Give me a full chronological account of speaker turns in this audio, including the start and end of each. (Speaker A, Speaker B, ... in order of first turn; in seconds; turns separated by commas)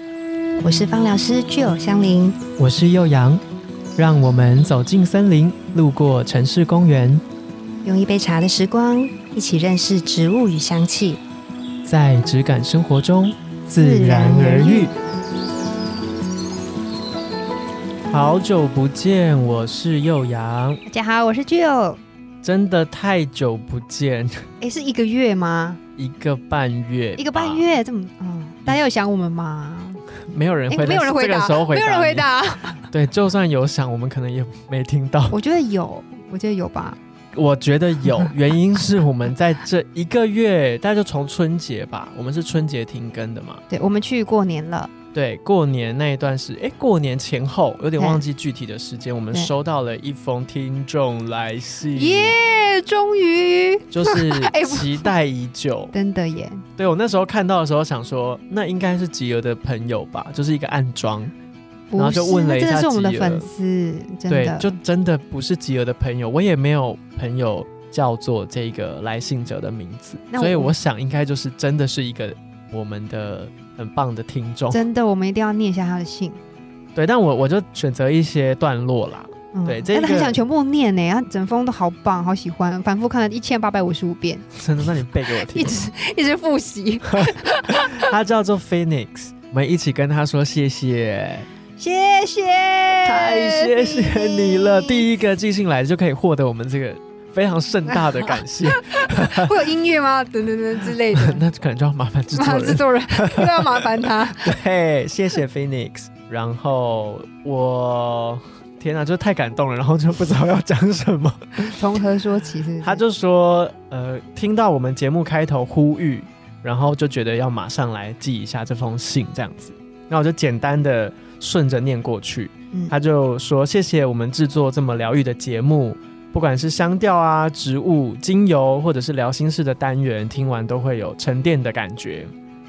Speaker A: 0.6-2.4, Speaker B: 2.6-3.4, Speaker B: 4.0-7.2, Speaker A: 7.8-11.2, Speaker B: 11.8-14.9, Speaker A: 13.7-14.9, Speaker B: 18.1-20.8, Speaker A: 20.9-22.0, Speaker B: 22.4-24.4, Speaker A: 24.6-25.8, Speaker B: 26.0-27.7, Speaker A: 27.2-30.0, Speaker B: 30.3-32.3, Speaker A: 30.7-32.8, Speaker B: 32.9-35.4, Speaker A: 35.3-37.0, Speaker B: 37.3-43.6, Speaker A: 43.7-44.9, Speaker B: 45.1-52.3, Speaker A: 48.0-48.2, Speaker A: 51.9-55.1, Speaker B: 53.9-55.9, Speaker A: 55.9-56.6, Speaker B: 56.8-61.3, Speaker A: 61.9-64.7, Speaker B: 62.0-63.5, Speaker B: 64.3-74.8, Speaker A: 70.3-70.7, Speaker A: 74.7-76.4, Speaker B: 76.9-80.4, Speaker A: 79.5-84.5, Speaker B: 84.5-85.8, Speaker A: 85.3-88.1, Speaker B: 87.9-91.5, Speaker A: 91.8-95.1, Speaker B: 93.0-99.5, Speaker A: 97.9-101.4, Speaker B: 101.1-103.8, Speaker A: 102.3-104.6, Speaker B: 104.4-111.8, Speaker A: 111.8-113.0, Speaker B: 112.8-132.3